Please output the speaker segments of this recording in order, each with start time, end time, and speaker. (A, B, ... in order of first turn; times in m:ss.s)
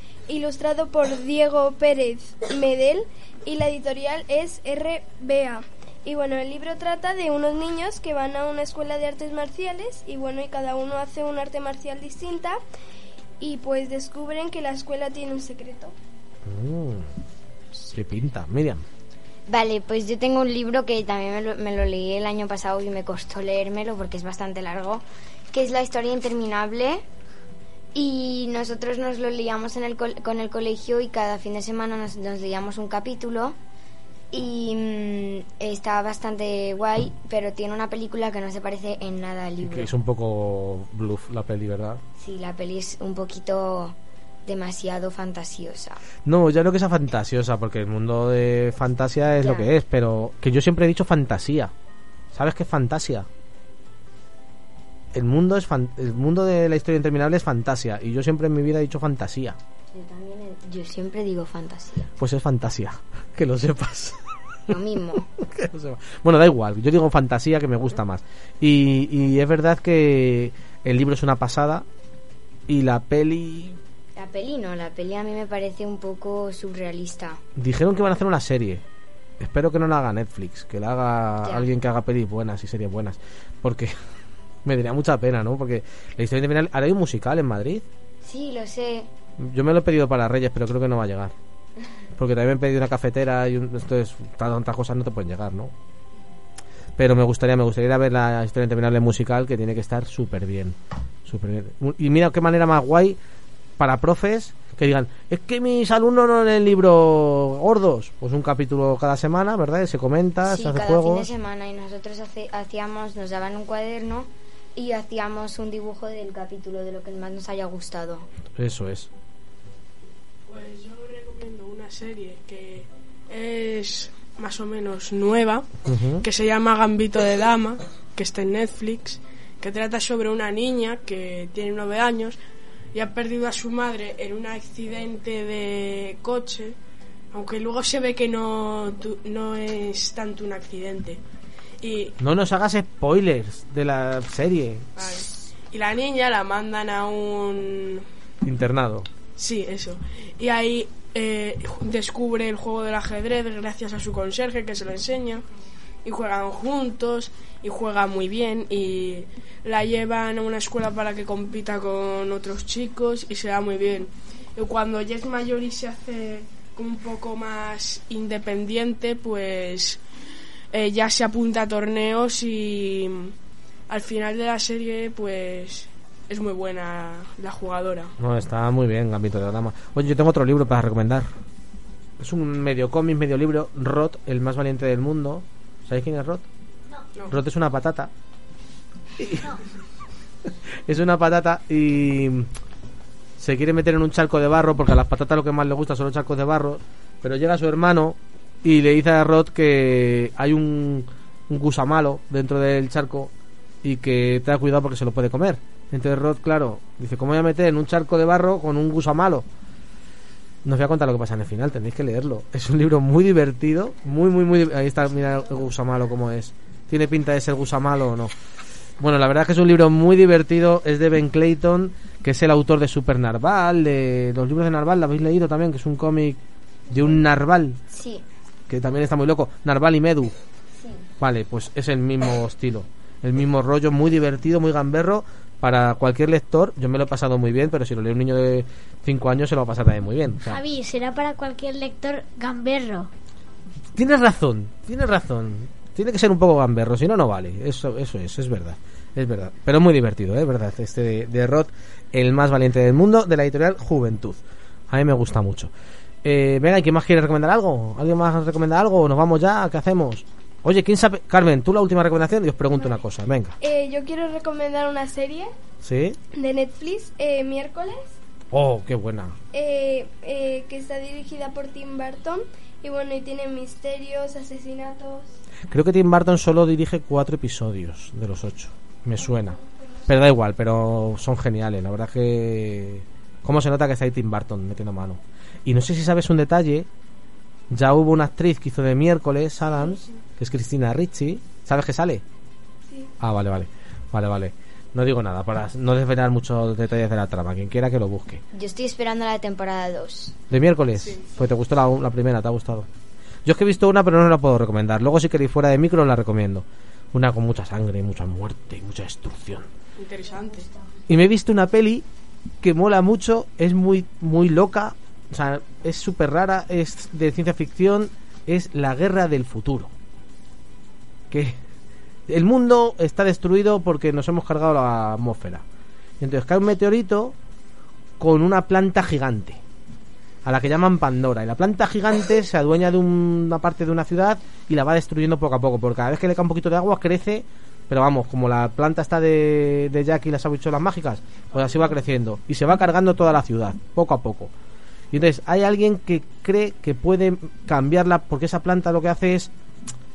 0:00.3-0:12.6 A
0:13.4-0:15.9 A
0:16.4-0:17.1 B
0:17.9-0:18.8 B
0:19.5-0:27.0 C
0:27.9-0:33.6 C
0:34.3-0:39.9 C
0:39.6-0:42.0 B
0:42.2-0:43.9 C
0:44.4-0:46.0 C
0:46.2-0:51.7 B
0:49.4-0:49.7 C
0:52.3-0:53.3 B
0:55.1-0:59.6 B
0:59.9-1:02.1 C
1:02.2-1:04.2 B
1:04.7-1:05.3 C
1:05.4-1:11.8 B
1:12.7-1:13.8 B
1:14.2-1:17.4 C
1:17.6-1:18.8 B
1:19.4-1:23.9 B
1:24.6-1:27.8 B
1:28.2-1:29.1 C
1:29.4-1:31.3 B
1:32.2-1:35.7 B
1:37.0-1:43.2 B
1:43.8-1:51.3 B
1:50.5-1:58.3 C
1:58.6-1:59.1 B
2:00.5-2:05.7 D
2:05.8-2:06.2 B
2:06.2-2:12.4 D
2:12.9-2:16.8 D
2:17.3-2:21.2 D
2:21.8-2:22.1 D
2:22.2-2:24.9 B
2:25.0-2:28.0 D
2:28.4-2:29.1 B
2:29.4-2:35.4 D
2:36.0-2:50.0 D
2:50.7-2:53.3 D
2:53.9-2:58.1 D
2:58.2-3:01.3 B
3:02.2-3:06.4 B
3:07.3-3:08.1 B
3:09.2-3:09.6 B
3:10.8-3:12.5 B
3:13.4-3:23.3 B
3:23.8-3:29.4 B
3:30.6-3:38.3 B
3:39.0-3:46.4 B
3:46.9-3:47.8 B
3:47.9-3:48.2 C
3:48.7-3:50.3 B
3:50.8-3:51.1 C
3:51.2-4:00.6 B
4:00.4-4:03.1 E
4:03.9-4:15.7 B
4:16.2-4:23.5 B
4:23.6-4:25.5 A
4:25.8-4:26.2 B
4:26.3-4:28.2 A
4:28.5-4:29.4 B
4:29.5-4:35.4 A
4:35.7-4:46.9 B
4:47.7-4:52.2 B
4:53.2-4:58.4 B
4:58.5-5:00.4 C
5:00.5-5:02.9 B
5:01.0-5:01.3 D
5:03.4-5:09.7 B
5:10.0-5:10.7 D
5:11.1-5:12.0 B
5:12.6-5:19.9 B
5:21.3-5:21.6 B
5:22.3-5:25.6 B
5:26.2-5:27.3 B
5:28.2-5:29.6 B
5:30.4-5:44.5 B
5:45.1-5:49.5 B